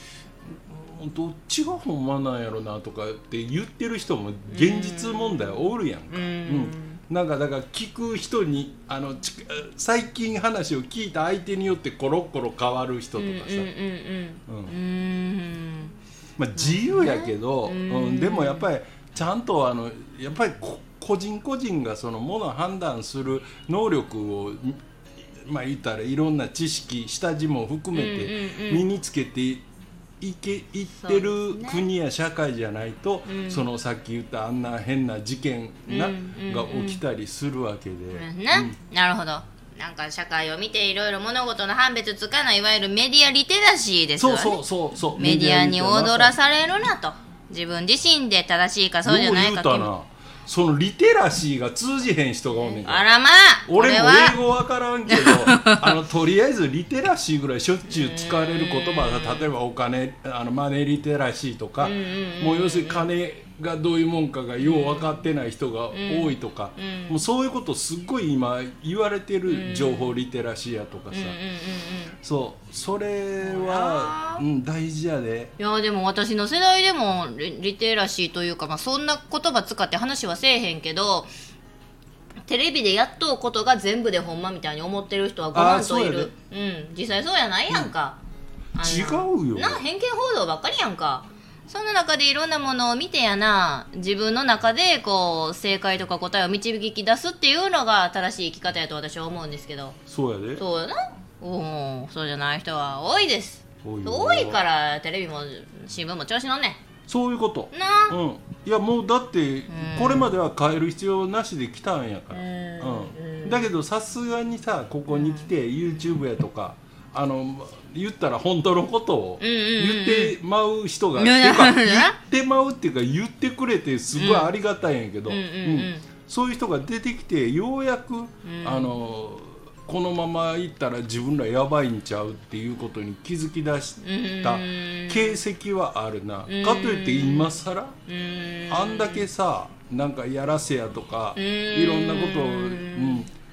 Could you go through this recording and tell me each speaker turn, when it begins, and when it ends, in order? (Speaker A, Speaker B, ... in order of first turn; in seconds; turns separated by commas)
Speaker A: 0.5-13.7, Speaker B: 4.5-7.0, Speaker B: 13.2-15.9, Speaker A: 14.5-14.8, Speaker A: 16.4-29.6, Speaker B: 16.6-18.7, Speaker B: 27.9-28.9, Speaker A: 30.2-38.8, Speaker B: 31.0-31.9, Speaker B: 33.3-33.6, Speaker B: 35.9-37.0, Speaker B: 38.1-44.6, Speaker A: 44.2-46.4, Speaker B: 45.2-49.9, Speaker A: 49.0-53.0, Speaker B: 52.8-54.4, Speaker A: 53.7-71.4, Speaker B: 55.1-55.9, Speaker B: 57.9-59.5, Speaker B: 61.8-63.1, Speaker B: 64.6-65.2, Speaker B: 65.9-67.2, Speaker B: 69.5-70.2, Speaker B: 71.1-72.2, Speaker A: 72.2-75.5, Speaker B: 73.4-74.4, Speaker B: 75.6-81.3, Speaker B: 82.5-88.2, Speaker A: 85.5-86.3, Speaker B: 88.8-100.0, Speaker A: 88.8-89.8, Speaker A: 100.1-100.6, Speaker B: 100.6-106.8, Speaker A: 103.8-104.6, Speaker A: 107.1-138.0, Speaker B: 107.7-108.2, Speaker B: 109.7-110.3, Speaker B: 112.3-113.7, Speaker B: 115.1-115.5, Speaker B: 119.4-120.3, Speaker B: 121.2-122.2, Speaker B: 124.2-124.5, Speaker B: 125.3-126.0, Speaker B: 128.4-128.9, Speaker B: 134.0-135.4, Speaker B: 136.5-139.3, Speaker A: 138.7-143.3, Speaker B: 141.4-143.3